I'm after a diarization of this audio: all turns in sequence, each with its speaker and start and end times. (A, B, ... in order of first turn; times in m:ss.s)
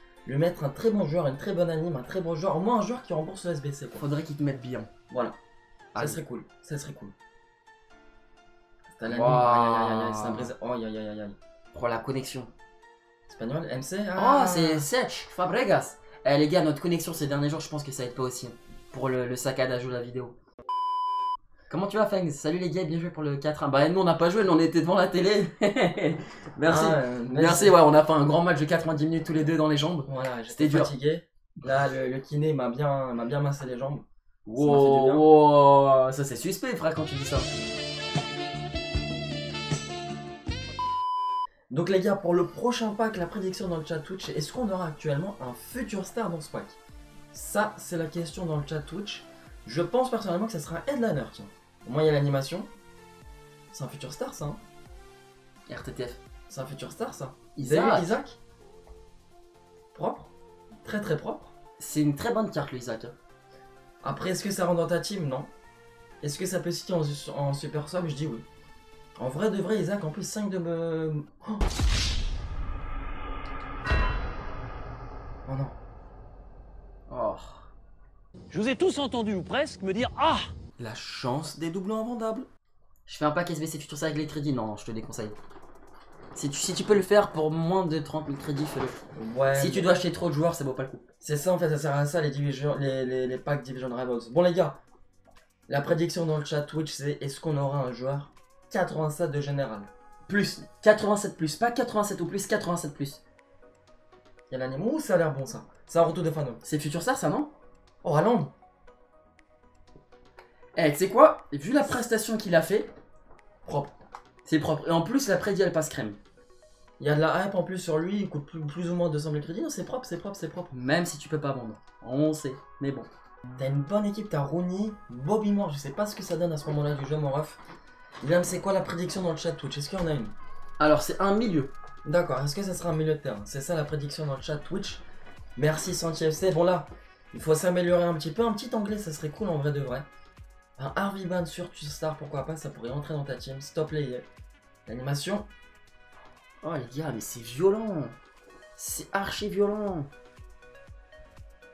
0:00.2-0:04.0 A
0:04.0-0:04.9 B
0:05.1-0:05.4 A
0:05.9-0:06.2 B
0:06.0-0:07.1 A
0:08.9-0:11.4 A
0:09.0-0:10.5 B
0:11.7-0:12.5 B
0:13.3-0:14.9 A
0:14.2-0:20.3 B
0:21.7-0:30.9 B
0:26.6-0:27.8 A
0:30.1-0:34.0 A
0:34.4-0:37.5 B
0:34.6-0:35.2 A
0:41.7-0:46.8 A
0:47.3-0:52.7 A
0:53.7-0:54.6 A
0:55.7-0:56.2 B
0:56.5-0:58.4 A
0:57.6-0:58.1 B
0:59.9-1:00.3 A
1:00.8-1:01.5 A
1:01.8-1:03.1 B
1:04.0-1:05.5 A
1:06.2-1:08.4 A
1:09.2-1:11.6 A
1:15.4-1:15.8 A
1:17.1-1:17.7 B
1:18.5-1:20.5 C
1:20.8-1:22.5 A
1:23.1-1:25.4 B
1:26.3-1:29.0 B
1:29.1-1:30.0 A
1:29.5-1:31.1 B
1:31.2-1:34.8 A
1:35.7-1:39.9 A
1:40.3-1:43.2 B
1:44.5-1:46.6 A
1:46.6-1:47.5 B
1:48.0-1:48.5 A
1:50.8-1:52.9 B
1:53.6-1:53.9 A
1:54.4-1:56.2 B
1:57.0-2:00.7 A
2:00.7-2:03.1 B
2:03.6-2:07.6 A
2:08.2-2:10.3 A
2:10.8-2:11.7 B
2:12.0-2:15.0 A
2:15.6-2:20.1 A
2:20.8-2:24.2 A
2:24.9-2:25.5 A
2:26.6-2:28.1 B
2:28.8-2:30.1 B